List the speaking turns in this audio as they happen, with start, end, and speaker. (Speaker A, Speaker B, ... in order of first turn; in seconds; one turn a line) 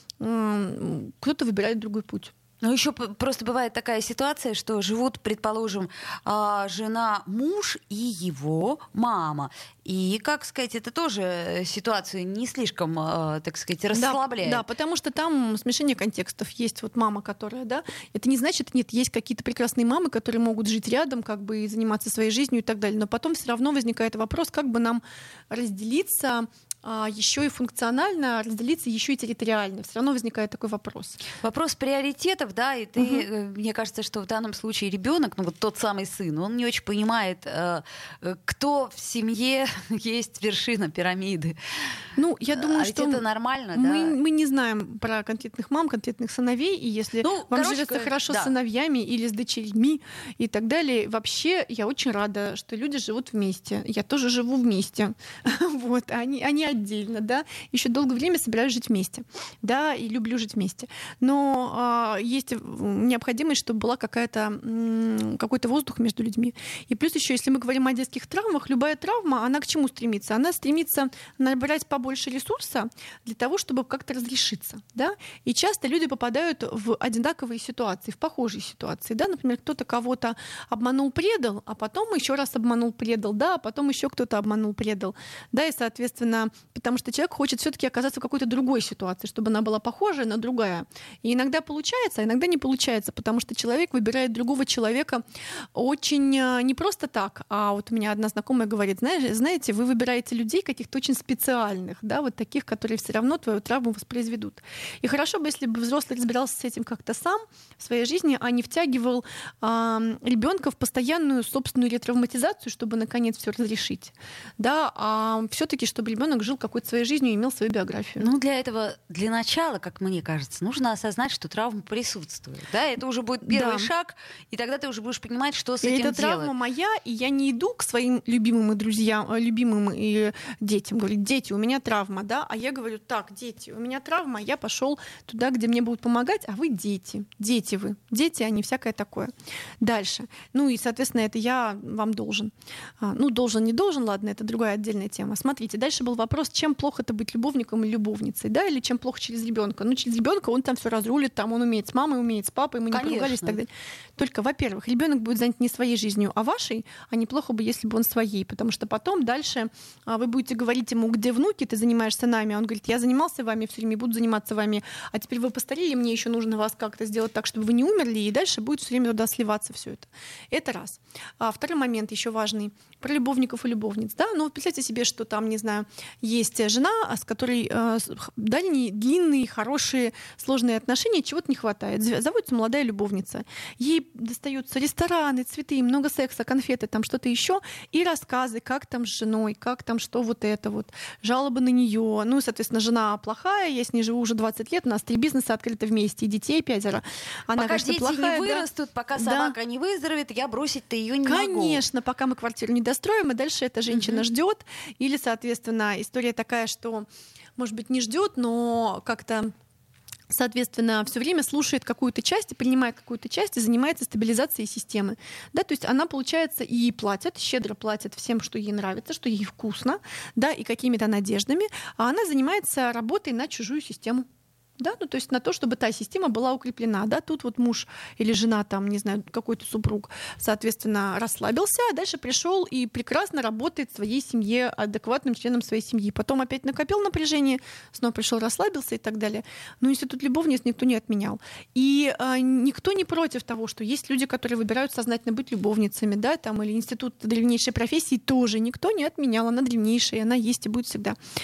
Speaker A: 0.2-2.3
Speaker B: 2.6-14.6
Speaker A: 13.9-31.2
Speaker B: 31.4-41.5
Speaker A: 33.0-33.2
Speaker A: 42.2-43.2
Speaker B: 42.5-44.2
Speaker A: 43.7-95.2
Speaker B: 47.2-48.5
Speaker A: 95.8-118.3
Speaker B: 118.2-126.5
Speaker A: 123.5-123.9
Speaker A: 125.8-199.6
Speaker B: 152.9-153.6
Speaker B: 197.6-201.8
Speaker A: 201.2-209.5
Speaker B: 203.9-204.2
Speaker A: 210.3-224.3
Speaker A: 224.8-251.2